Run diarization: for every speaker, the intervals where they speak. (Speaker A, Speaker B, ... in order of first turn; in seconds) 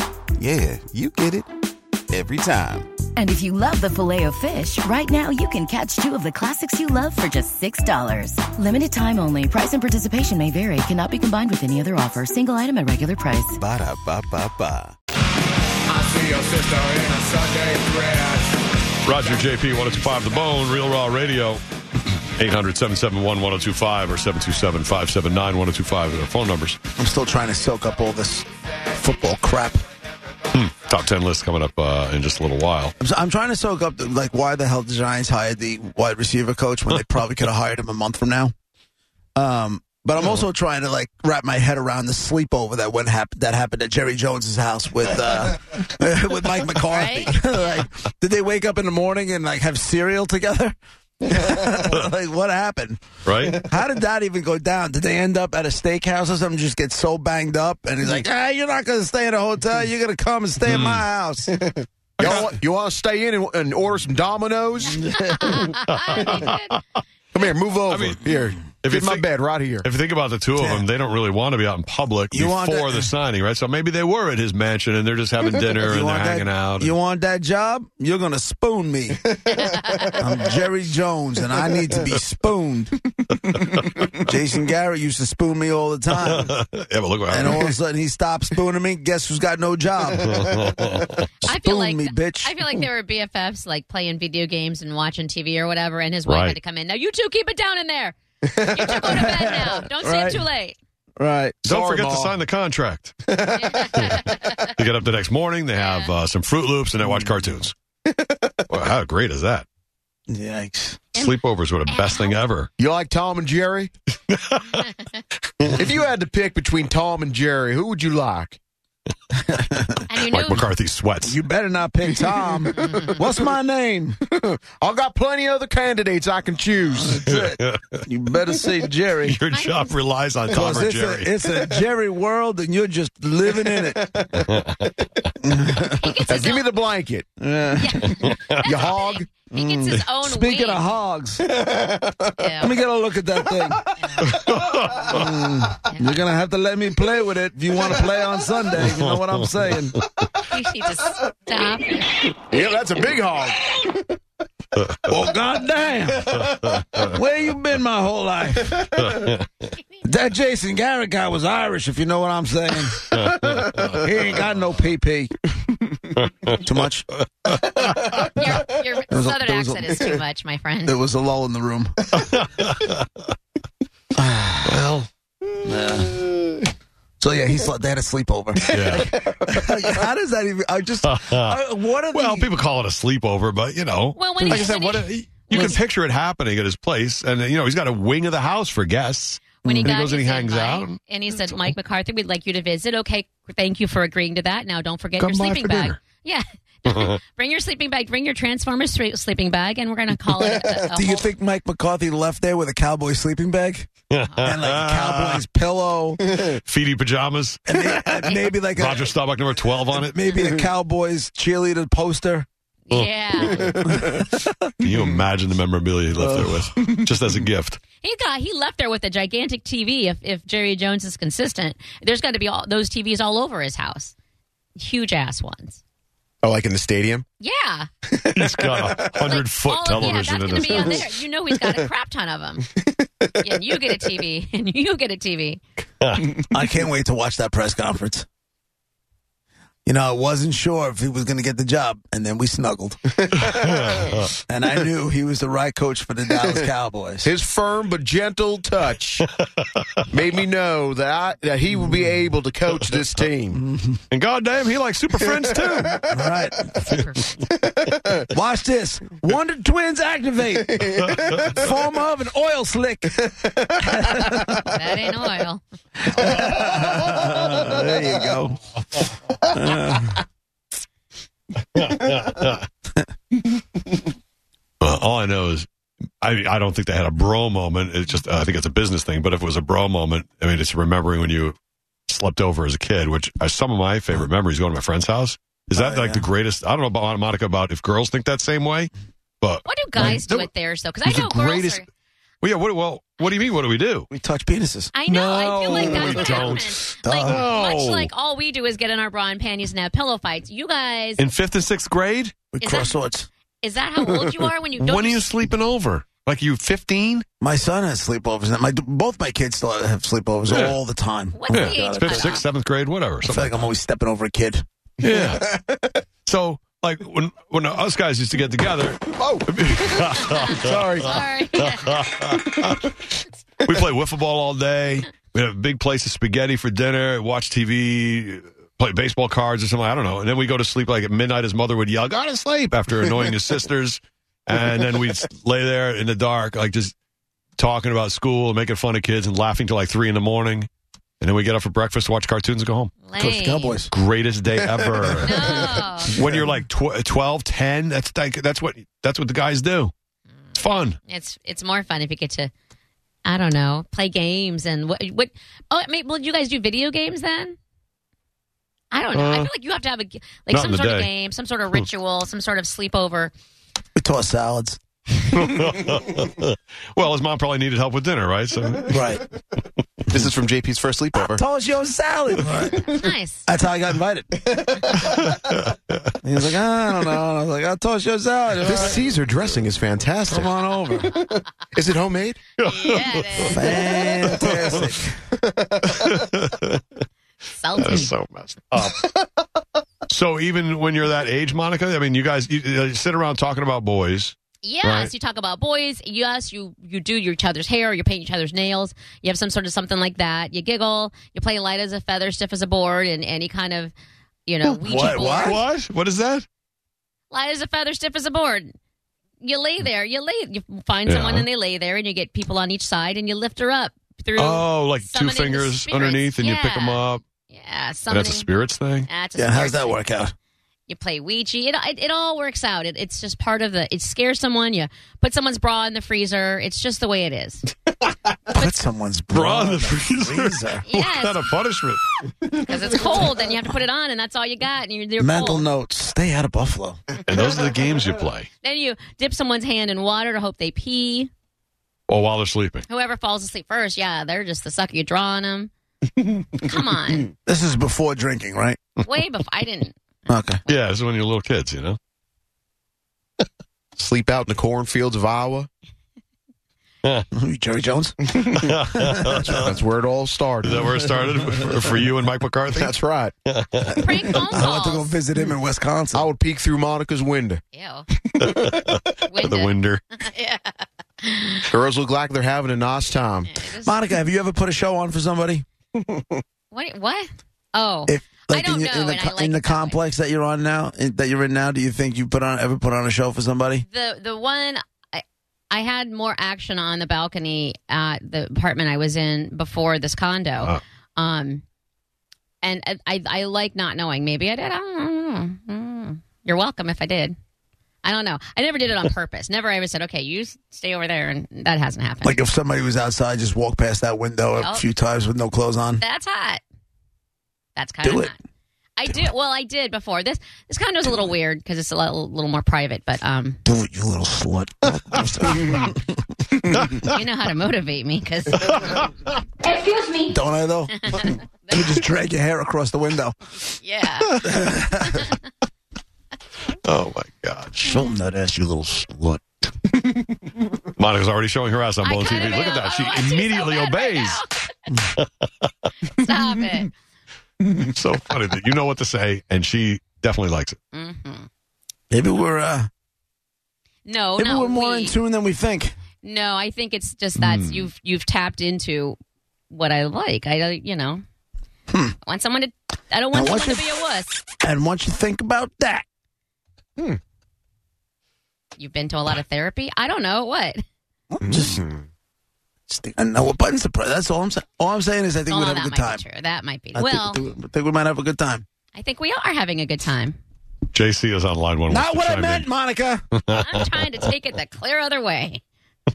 Speaker A: 0.4-1.5, 2.1-2.9, 13.6-14.9
Speaker B: 3.2-13.6
Speaker C: 16.1-18.3
Speaker D: 19.0-21.6, 22.4-26.8, 30.5-32.9, 53.2-53.6, 60.7-61.1, 62.2-62.5, 65.7-66.8, 67.9-69.3, 69.8-76.9, 83.5-84.1, 86.2-87.7, 90.3-91.2, 96.3-96.6, 101.7-103.2, 104.7-107.7, 108.7-109.7, 111.2-112.7, 114.3-114.9, 120.3-121.4, 127.3-128.0, 129.2-131.5, 134.4-134.9, 138.2-138.8, 144.2-145.2, 148.9-150.3, 154.8-155.1, 156.5-157.0, 159.0-159.5, 163.1-163.9, 166.2-166.6, 172.1-173.1, 174.7-175.1, 178.7-179.1, 181.0-191.7, 195.2-196.0, 204.1-205.4, 206.4-210.2, 212.9-213.8, 214.8-217.8, 228.3-231.1, 236.0-236.3, 243.4-244.3, 254.1-256.0, 271.8-272.6, 274.8-275.7, 276.2-290.5, 291.1-291.8, 292.4-294.1, 295.1-298.1, 301.2-302.4, 304.2-307.2, 310.5-310.8, 311.5-313.6, 315.0-315.6, 316.2-322.9, 323.6-336.9, 337.6-340.7, 341.2-342.9, 343.9-349.9, 350.6-351.0, 359.1-359.5, 360.5-361.1, 365.3-369.1, 375.2-376.1, 378.8-379.6, 382.6-383.7, 384.3-384.9, 385.9-386.8, 387.8-389.0, 390.1-395.1, 404.6-406.5, 411.1-411.5, 414.4-417.2, 418.1-419.1, 429.3-432.0, 437.3-438.5, 442.1-442.9, 450.7-452.0, 458.5-459.7, 460.6-462.9, 463.4-464.4, 468.4-470.0, 518.7-519.1, 524.2-524.7, 526.8-528.0, 531.0-534.4, 535.2-535.7, 537.7-540.8, 547.4-547.8, 570.9-572.7, 573.3-574.1
Speaker E: 27.0-29.8, 33.0-38.5, 39.4-61.6, 64.9-65.7, 70.5-70.9, 72.3-73.1, 75.8-79.3, 80.1-83.0, 84.2-86.5, 87.3-90.5, 91.4-92.5, 99.0-100.5, 101.2-101.6, 107.0-107.3, 110.3-111.0, 119.4-120.1, 121.2-124.2, 126.9-129.4, 130.5-134.2, 135.4-136.2, 137.4-138.2, 139.5-141.5, 142.6-143.9, 145.1-150.0, 155.1-159.2, 160.0-165.3, 166.5-167.1, 169.1-170.2, 170.8-172.0, 174.2-174.9, 175.7-176.2, 177.2-182.5, 184.4-184.7, 185.5-185.8, 189.7-190.0, 200.9-203.9, 204.4-206.2, 207.7-209.1, 209.9-212.5, 214.0-214.5, 236.4-238.3, 239.9-243.3, 244.5-247.3, 253.5-254.0, 256.1-256.7, 258.3-263.2, 263.8-264.7, 266.0-268.6, 269.5-270.2, 285.7-286.3, 294.1-294.9, 297.0-297.5, 302.5-303.3, 307.4-312.4, 313.2-314.6, 343.2-343.9, 364.0-364.8, 368.9-369.2, 371.1-374.4, 376.2-379.0, 380.3-381.1, 383.4-385.2, 404.8-405.6, 419.4-420.3, 428.5-430.9, 435.2-437.0, 447.5-448.8, 450.3-450.6, 457.3-458.3, 464.5-466.3, 473.8-475.6, 478.1-483.8, 502.2-506.0, 508.0-508.3, 513.7-517.1, 520.3-523.4, 524.4-525.3, 527.8-529.4, 542.1-542.9, 544.4-545.9, 551.9-552.1, 553.3-553.9, 554.6-556.0, 561.3-561.8, 562.9-566.2, 566.9-568.6, 571.9-573.2
Speaker F: 46.9-47.7, 65.3-66.8, 91.4-100.8, 103.5-104.7, 105.8-106.1, 111.1-112.4, 120.1-120.7, 122.8-123.1, 129.5-130.0, 135.9-136.7, 137.8-140.9, 142.4-142.8, 145.9-146.2, 150.5-152.2, 168.1-171.0, 184.2-185.8, 189.7-201.3, 212.9-213.7, 218.0-224.2, 224.8-225.8, 227.4-227.9, 229.2-232.7, 233.4-235.6, 256.9-257.1, 264.7-265.6, 289.6-291.9, 294.9-301.2, 302.6-303.0, 303.6-305.3, 311.3-312.4, 320.3-322.1, 343.0-343.8, 345.2-346.2, 351.1-352.5, 353.2-357.6, 358.9-363.3, 372.9-373.5, 382.7-383.8, 387.6-388.1, 394.6-403.9, 404.5-405.6, 407.3-408.7, 409.4-418.5, 419.1-420.2, 420.9-427.6, 430.9-431.5, 432.5-435.7, 438.6-441.3, 442.9-445.7, 446.6-447.3, 449.0-450.0, 463.9-465.2, 467.7-468.1, 469.2-471.7, 473.5-474.1, 476.7-480.0, 483.9-491.6, 492.6-497.4, 498.0-502.4, 504.6-504.9, 506.0-506.6, 507.8-508.4, 509.0-513.6, 517.0-519.0, 519.6-520.3, 521.0-522.0, 523.8-524.4, 532.0-534.9, 536.1-536.9, 540.9-541.5, 544.0-545.2, 546.2-549.2, 549.7-551.2, 552.2-554.4, 558.8-560.8, 565.5-567.4, 568.9-570.4, 573.5-575.6
Speaker G: 62.2-65.1, 67.3-69.9, 79.3-80.2, 83.3-84.2, 101.7-102.4, 103.3-104.1, 108.1-108.5, 112.8-113.9, 115.7-118.6, 122.3-123.4, 124.2-127.3, 133.7-134.4, 136.2-137.3, 138.6-139.3, 141.5-142.3, 152.4-154.0, 213.5-214.1, 226.4-227.2, 228.1-229.2, 232.9-233.3, 243.3-243.5, 247.2-249.3, 250.1-253.6, 255.2-256.2, 257.5-258.2, 260.6-261.7, 263.3-264.3, 267.2-267.7, 315.0-315.9, 319.1-321.2, 322.3-322.9, 370.1-371.4, 374.5-375.3, 378.6-382.4, 385.4-386.0, 454.0-455.7, 458.3-458.8, 459.3-461.0, 462.7-463.3, 466.1-467.6, 468.4-469.0, 471.7-473.5, 475.9-476.4, 561.5-562.0